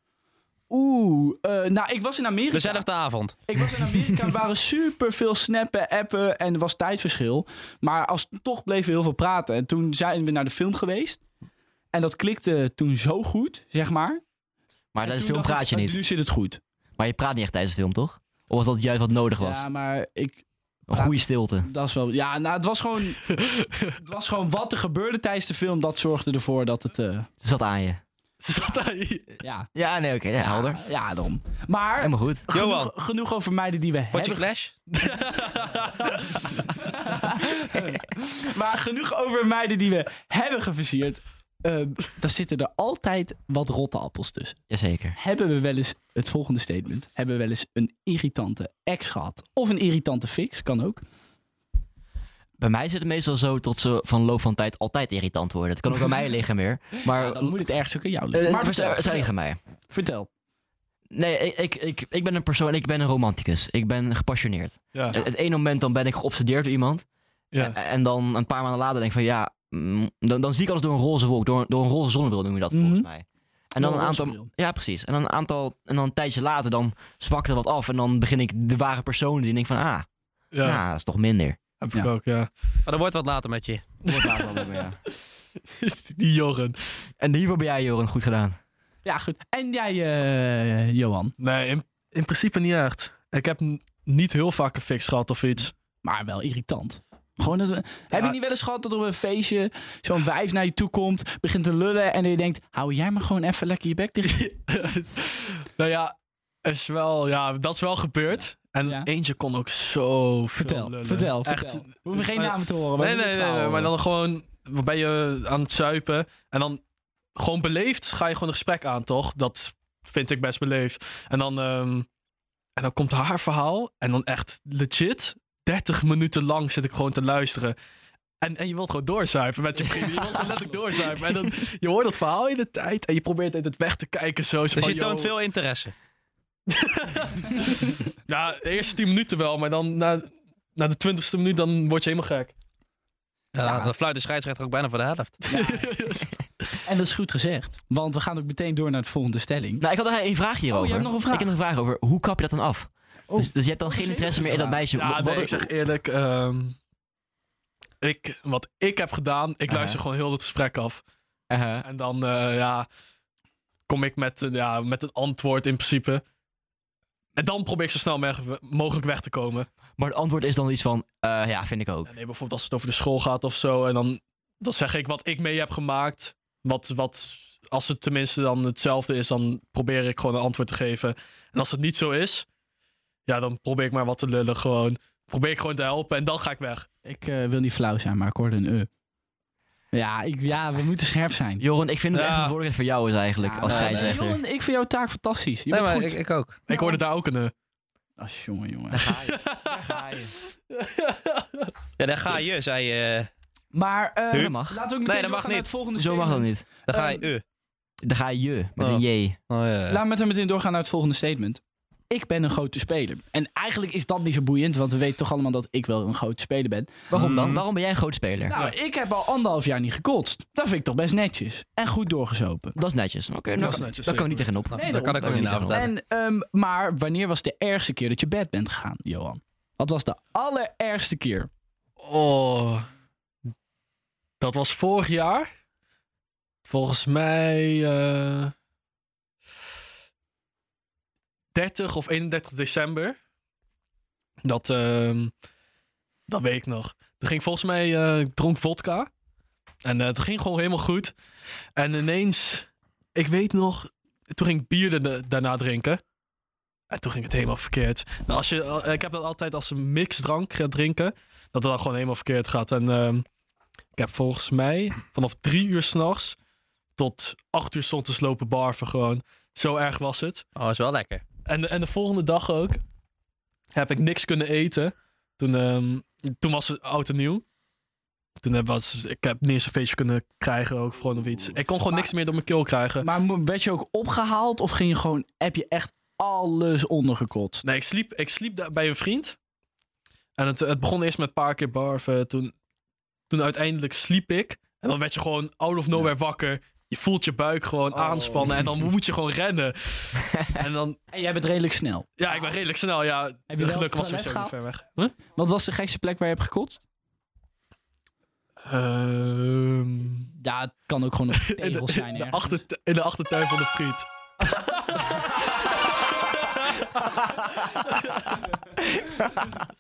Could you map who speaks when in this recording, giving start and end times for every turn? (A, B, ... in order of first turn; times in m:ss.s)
0:00.7-0:11.2 A
0:02.5-0:03.4 B
0:11.9-0:14.2 A
0:14.9-0:16.0 C
0:15.0-0:16.6 A
0:17.0-0:19.6 C
0:19.4-0:23.2 A
0:20.9-0:21.7 C
0:23.4-0:23.8 D
0:24.0-0:27.3 A
0:27.4-0:28.0 C
0:28.4-0:29.4 D
0:29.4-0:29.7 A
0:29.7-0:30.8 C
0:30.7-0:34.4 A
0:32.0-0:32.5 C
0:32.5-0:32.9 B
0:34.1-0:34.8 B
0:34.9-0:36.6 D
0:36.8-0:44.6 A
0:44.7-0:45.2 C
0:45.2-0:51.0 A
0:52.6-0:57.6 C
0:57.0-0:59.3 A
0:58.3-0:59.6 C
0:59.9-1:00.3 A
1:01.1-1:21.6 C
1:12.7-1:13.1 A
1:13.8-1:14.5 A
1:20.5-1:20.8 D
1:21.8-1:22.5 D
1:22.9-1:23.8 B
1:24.0-1:24.8 D
1:24.1-1:25.0 C
1:25.8-1:26.8 D
1:27.2-1:28.6 C
1:29.0-1:31.4 A
1:31.4-1:35.7 D
1:36.0-1:44.4 A
1:44.2-1:56.8 D
1:50.6-1:53.9 A
1:57.4-2:02.1 D
2:02.8-2:07.8 D
2:08.4-2:15.3 D
2:09.8-2:10.4 C
2:14.7-2:15.9 B
2:16.7-2:22.5 D
2:23.5-2:25.4 B
2:23.6-2:23.9 A
2:25.5-2:26.0 A
2:25.5-2:26.3 D
2:26.8-2:29.8 A
2:29.8-2:35.7 C
2:30.7-2:31.5 A
2:33.3-2:34.8 A
2:34.9-2:36.8 D
2:38.0-2:41.0 D
2:39.7-2:40.0 C
2:41.5-2:41.9 C
2:41.8-2:42.9 D
2:43.9-2:46.2 D
2:47.4-2:49.7 D
2:50.0-2:52.1 C
2:52.1-3:02.5 D
3:03.3-3:06.9 D
3:07.0-3:08.9 A
3:09.9-3:11.6 A
3:11.6-3:14.4 C
3:12.1-3:12.6 B
3:13.4-3:16.2 A
3:13.7-3:14.2 B
3:15.7-3:16.6 B
3:16.7-3:17.5 D
3:16.7-3:17.0 A
3:18.2-3:19.1 A
3:18.9-3:20.3 C
3:19.5-3:21.7 D
3:22.0-3:23.3 B
3:23.7-3:27.2 A
3:24.3-3:24.8 C
3:25.0-3:25.7 B
3:26.0-3:26.7 C
3:26.9-3:27.4 B
3:28.0-3:29.4 C
3:28.8-3:30.0 B
3:29.9-3:37.1 A
3:37.1-3:38.6 C
3:37.1-3:37.6 B
3:38.5-3:42.8 A
3:42.8-3:45.8 C
3:43.6-3:44.5 D
3:44.7-3:45.9 B
3:44.7-3:51.5 A
3:52.0-3:52.9 D
3:54.4-3:55.5 D
3:56.7-3:58.5 D
4:01.5-4:03.2 D
4:04.4-4:05.3 D
4:06.3-4:09.1 D
4:09.8-4:11.2 D
4:11.8-4:16.0 D
4:16.9-4:23.3 D
4:24.0-4:26.4 D
4:27.0-4:30.4 D
4:30.6-4:31.2 B
4:31.4-4:32.8 D
4:33.7-4:37.4 D
4:38.4-4:43.1 D
4:41.9-4:42.1 A
4:43.0-4:47.6 A
4:47.6-4:49.4 D
4:50.4-4:52.5 D
4:53.3-5:01.0 D
4:57.9-4:58.6 A
5:01.1-5:02.6 A
5:02.2-5:05.1 D
5:03.5-5:04.7 A
5:05.4-5:06.8 A
5:08.7-5:10.3 D
5:10.4-5:12.6 A
5:11.4-5:17.2 D
5:17.8-5:18.3 D
5:18.8-5:19.5 C